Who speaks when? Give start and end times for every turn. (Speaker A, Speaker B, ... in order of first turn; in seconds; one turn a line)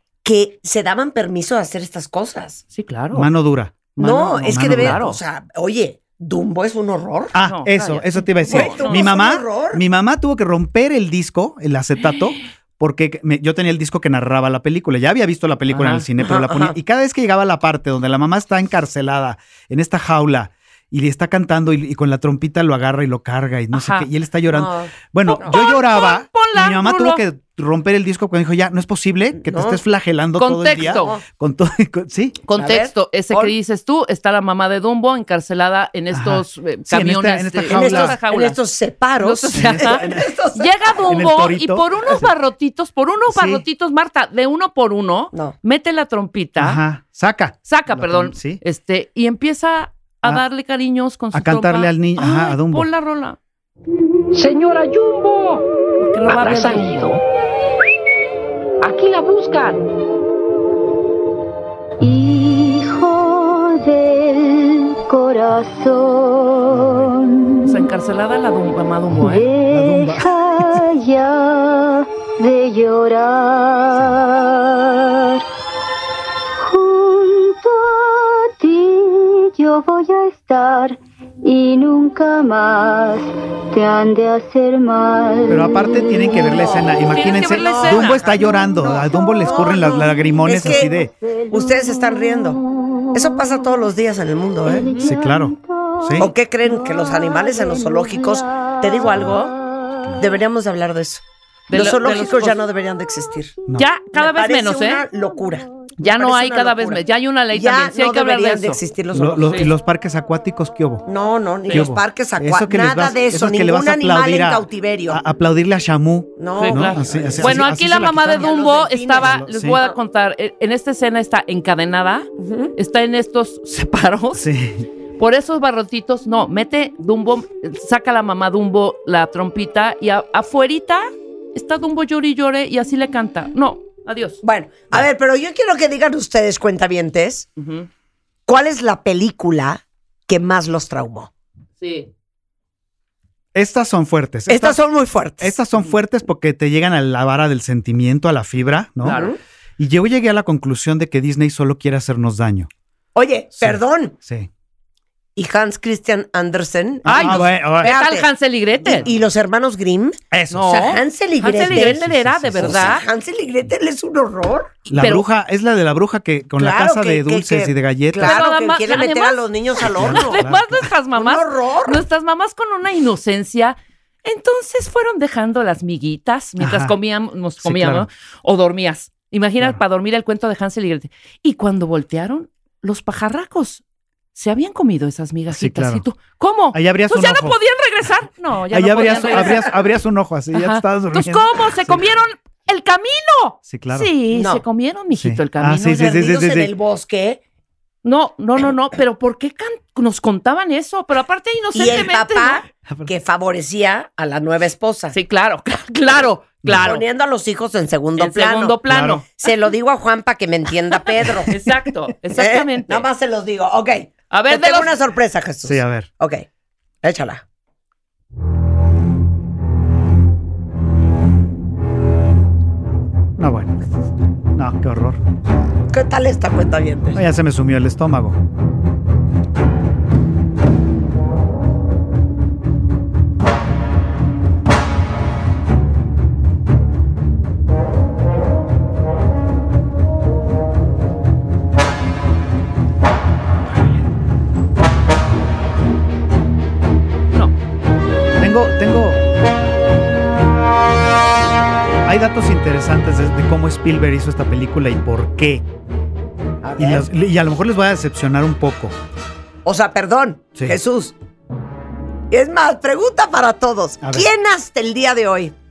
Speaker A: 0.2-2.6
Speaker B: 2.7-3.3
Speaker C: 3.1-5.1
Speaker B: 4.0-5.2
Speaker A: 4.0-7.4
Speaker C: 7.3-32.4
Speaker B: 7.4-9.1
Speaker A: 8.5-9.8
Speaker B: 12.1-12.4
Speaker B: 15.7-16.1
Speaker A: 16.2-16.8
Speaker B: 23.7-24.1
Speaker A: 24.5-25.6
Speaker B: 25.3-27.2
Speaker A: 29.4-29.8
Speaker B: 30.4-31.2
Speaker A: 30.8-31.2
Speaker B: 32.5-38.6
Speaker A: 32.5-33.5
Speaker C: 36.1-38.2
Speaker A: 37.7-41.2
Speaker B: 39.2-46.8
Speaker C: 39.5-40.4
Speaker C: 41.0-42.3
Speaker C: 43.3-43.6
Speaker C: 46.6-48.6
Speaker B: 47.7-53.4
Speaker C: 51.3-52.9
Speaker D: 54.4-55.2
Speaker B: 56.0-57.2
Speaker D: 56.3-57.1
Speaker D: 58.9-59.5
Speaker E: 62.0-67.8
Speaker C: 66.7-67.1
Speaker B: 67.7-69.5
Speaker E: 69.1-75.4
Speaker C: 69.7-70.8
Speaker C: 73.9-74.2
Speaker E: 76.6-86.8
Speaker C: 85.5-91.1
Speaker A: 86.6-90.9
Speaker B: 87.0-88.2
Speaker E: 91.1-93.4
Speaker A: 91.5-92.6
Speaker A: 93.1-95.0
Speaker E: 94.7-99.7
Speaker C: 95.0-96.3
Speaker A: 96.2-99.5
Speaker A: 100.2-103.5
Speaker B: 101.7-102.6
Speaker B: 103.8-105.0
Speaker A: 104.2-109.7
Speaker B: 106.0-108.8
Speaker C: 109.1-111.1
Speaker B: 109.5-109.7
Speaker A: 111.1-115.2
Speaker C: 111.7-118.5
Speaker A: 116.4-117.7
Speaker B: 116.6-124.5
Speaker A: 118.3-120.0
Speaker C: 119.2-119.8
Speaker A: 122.4-122.7
Speaker C: 124.3-124.9
Speaker B: 125.2-134.4
Speaker A: 134.4-137.5
Speaker B: 137.6-137.9
Speaker A: 138.5-141.3
Speaker B: 141.8-142.1
Speaker C: 143.5-144.8
Speaker A: 144.5-145.5
Speaker C: 145.4-149.2
Speaker B: 149.0-149.3
Speaker A: 149.0-149.4
Speaker C: 149.8-152.7
Speaker A: 153.2-154.2
Speaker C: 153.6-154.5
Speaker A: 155.4-158.3
Speaker C: 157.0-158.0
Speaker B: 157.1-159.1
Speaker A: 158.8-162.0
Speaker C: 160.3-160.7
Speaker B: 160.5-163.1
Speaker C: 161.6-163.0
Speaker A: 162.6-164.8
Speaker C: 164.9-168.4
Speaker B: 165.0-165.2
Speaker A: 166.6-170.4
Speaker B: 168.2-169.4
Speaker C: 169.8-170.9
Speaker B: 170.0-183.8
Speaker A: 171.2-172.0
Speaker C: 176.6-176.9
Speaker C: 177.6-178.1
Speaker B: 184.3-189.7
Speaker C: 185.5-186.1
Speaker C: 186.7-187.6
Speaker C: 188.7-192.1
Speaker B: 190.5-196.1
Speaker C: 193.7-194.1
Speaker A: 194.3-194.6
Speaker C: 195.1-196.7
Speaker A: 195.8-197.4
Speaker B: 198.0-202.6
Speaker A: 201.8-205.2
Speaker C: 202.9-203.1
Speaker B: 205.1-207.0
Speaker A: 206.7-208.8
Speaker B: 208.2-209.5
Speaker C: 208.9-209.2
Speaker A: 209.3-211.6
Speaker B: 211.5-213.1
Speaker A: 212.3-216.5
Speaker B: 214.3-215.0
Speaker C: 215.6-216.1
Speaker A: 217.0-217.4
Speaker C: 223.4-223.8
Speaker C: 224.6-225.2
Speaker A: 225.9-227.2
Speaker C: 227.2-228.4
Speaker C: 248.4-249.2
Speaker C: 252.1-255.7
Speaker A: 256.6-257.1
Speaker C: 256.8-258.9
Speaker A: 259.6-261.1
Speaker A: 262.3-265.6
Speaker C: 264.0-264.3